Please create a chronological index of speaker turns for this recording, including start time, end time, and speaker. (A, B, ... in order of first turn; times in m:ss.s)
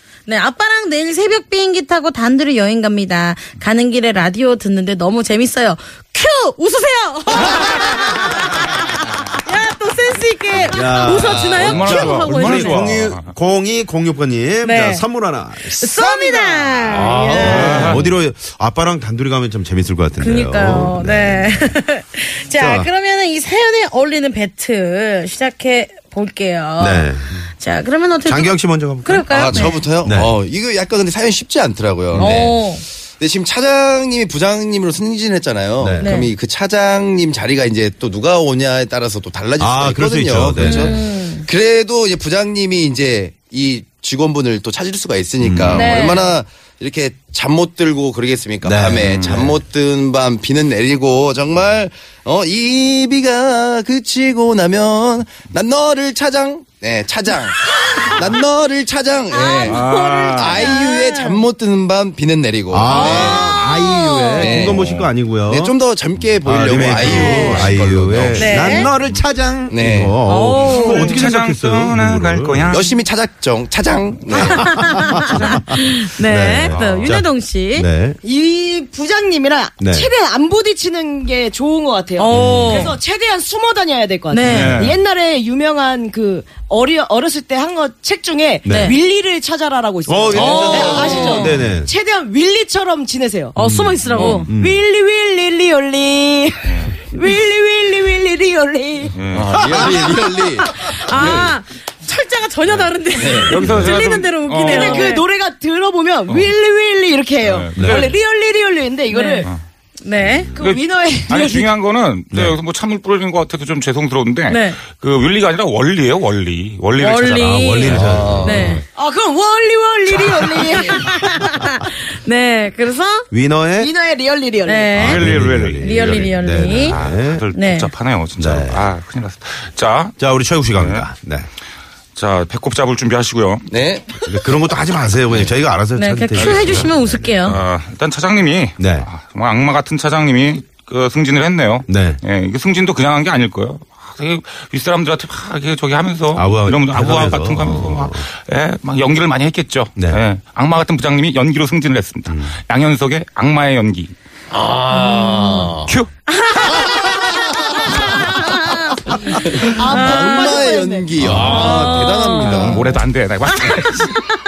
0:00.2-0:13.1 A
0:10.6-0:16.1 B
0:11.1-0:11.8 C
0:11.5-0:13.3 D
0:14.6-0:15.0 A
0:15.7-0:18.0 A
0:16.4-0:17.7 C
0:16.9-0:18.1 D
0:17.2-0:21.7 B
0:20.2-0:29.8 A
0:22.5-0:22.9 B
0:26.8-0:27.3 B
0:28.2-0:30.3 B
0:29.3-0:32.6 C
0:32.1-0:32.8 A
0:32.2-0:32.5 B
0:33.2-1:03.6 C
0:35.8-0:36.2 B
0:36.0-0:36.3 A
0:39.6-0:41.0 B
0:40.6-0:41.4 A
0:45.4-0:45.9 B
0:45.7-0:46.4 A
0:48.6-0:49.3 B
0:49.0-0:49.5 D
0:57.7-0:58.2 A
0:59.3-1:01.4 A
0:59.6-1:00.7 D
1:02.7-1:05.8 B
1:02.8-1:04.7 A
1:04.4-1:08.9 C
1:04.7-1:05.1 D
1:06.2-1:07.5 D
1:06.4-1:12.8 B
1:07.0-1:07.7 A
1:08.3-1:08.9 A
1:09.7-1:10.2 C
1:10.3-1:11.2 A
1:10.4-1:13.0 D
1:12.7-1:14.8 C
1:14.3-1:17.9 A
1:14.3-1:18.2 B
1:15.1-1:15.6 D
1:16.7-1:17.1 D
1:18.2-1:33.5 E
1:19.8-1:20.1 B
1:22.2-1:23.0 A
1:22.3-1:22.9 B
1:24.3-1:24.8 A
1:24.4-1:25.0 D
1:28.6-1:28.9 B
1:28.6-1:29.0 A
1:30.1-1:31.9 B
1:30.3-1:31.6 A
1:33.5-1:34.5 A
1:33.6-1:34.4 D
1:34.1-1:39.2 E
1:34.5-1:34.8 B
1:36.6-1:37.0 D
1:39.1-1:40.0 D
1:39.3-1:41.5 C
1:39.6-1:40.2 B
1:40.6-1:45.3 A
1:43.1-1:43.8 C
1:43.5-1:45.1 D
1:43.6-1:43.9 B
1:44.5-1:49.5 E
1:46.3-1:46.5 D
1:47.4-1:48.2 D
1:47.8-1:48.1 B
1:49.1-1:49.5 A
1:50.0-1:50.5 A
1:50.1-1:50.6 B
1:50.6-1:51.7 E
1:50.6-1:58.0 D
1:52.3-1:52.6 B
1:54.5-1:54.8 A
1:57.0-1:58.8 A
1:57.3-1:58.8 B
1:57.8-1:58.8 C
1:58.9-2:01.3 E
2:00.7-2:03.3 A
2:03.3-2:03.9 B
2:03.8-2:05.0 E
2:04.6-2:05.2 A
2:05.0-2:06.3 D
2:05.0-2:07.4 B
2:05.8-2:07.0 A
2:06.9-2:11.1 D
2:07.5-2:07.9 A
2:08.4-2:08.9 B
2:10.2-2:11.5 B
2:12.1-2:13.7 D
2:13.7-2:14.0 C
2:14.2-2:17.6 B
2:15.9-2:17.6 A
2:16.3-2:34.1 D
2:18.8-2:19.1 B
2:21.9-2:22.2 B
2:26.3-2:28.3 B
2:30.0-2:30.2 B
2:32.2-2:32.5 B
2:34.5-2:35.9 C
2:34.9-2:35.7 A
2:36.3-2:43.0 A
2:37.0-2:38.3 C
2:39.4-2:42.9 C
2:39.8-2:41.0 E
2:41.2-2:44.2 D
2:41.2-2:41.6 B